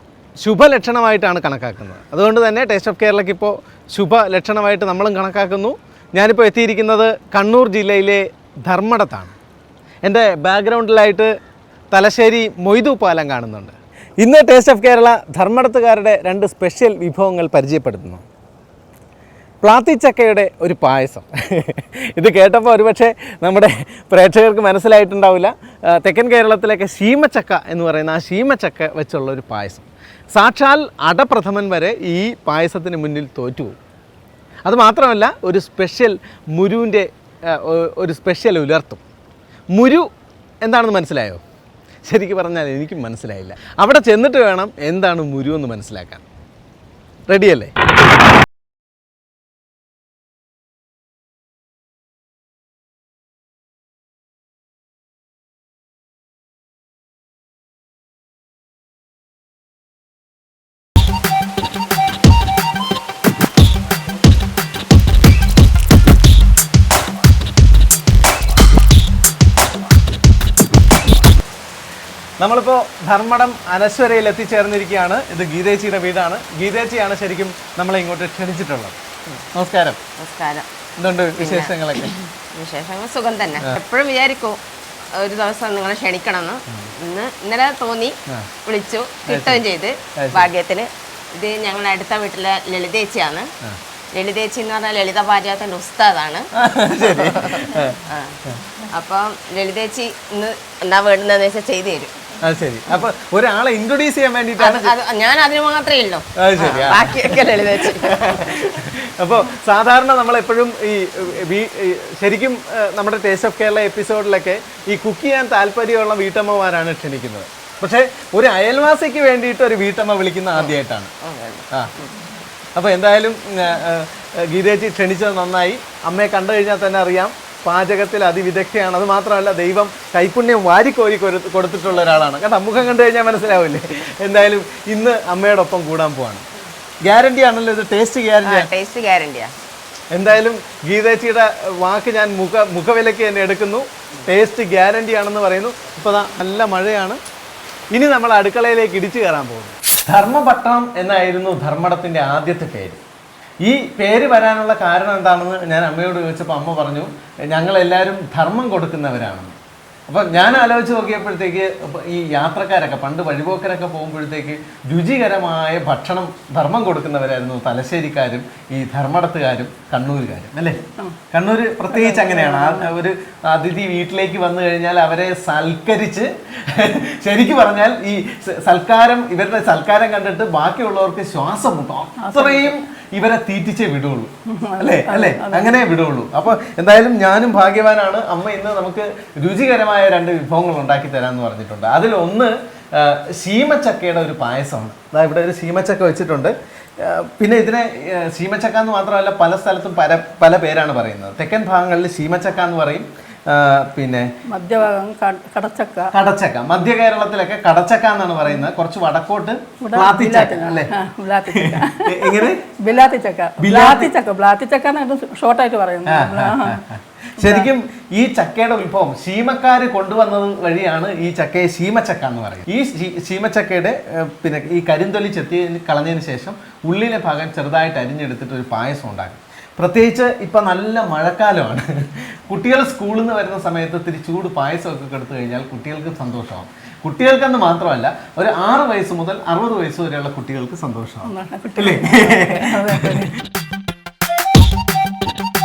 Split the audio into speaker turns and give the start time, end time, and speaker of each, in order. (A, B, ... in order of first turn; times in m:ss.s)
0:00.4-0:09.4 A
0:10.0-0:11.3 A
0:11.9-0:18.2 A
0:19.6-0:33.8 A
0:34.7-0:39.0 A
0:39.7-0:40.1 A
0:40.6-0:41.4 A
0:42.1-0:46.2 A
0:47.3-0:47.7 A
1:12.4-1:19.0 A
1:19.5-1:20.0 A
1:20.2-1:20.7 B
1:21.0-1:22.2 A
1:21.4-1:24.6 B
1:25.1-1:33.5 B
1:29.3-1:29.6 A
1:30.2-1:30.5 A
1:34.1-1:42.2 B
1:36.6-1:38.6 A
1:42.4-1:44.9 A
1:44.6-1:48.7 B
1:46.4-2:01.1 A
2:00.6-2:02.3 B
2:01.7-2:02.0 A
2:02.8-2:16.4 A
2:17.0-2:18.7 A
2:18.4-2:19.5 B
2:20.1-2:27.2 A
2:27.9-2:33.0 A
2:33.6-2:39.6 A
2:40.1-3:24.3 A
2:51.9-2:52.9 C
3:02.2-3:02.8 C
3:04.5-3:05.8 C
3:24.5-3:26.1 C
3:26.1-3:30.9 A
3:29.8-3:36.8 C
3:31.4-3:32.6 A
3:33.6-3:34.1 A
3:36.1-4:03.3 A
3:37.4-3:37.7 C
4:01.3-4:03.4 C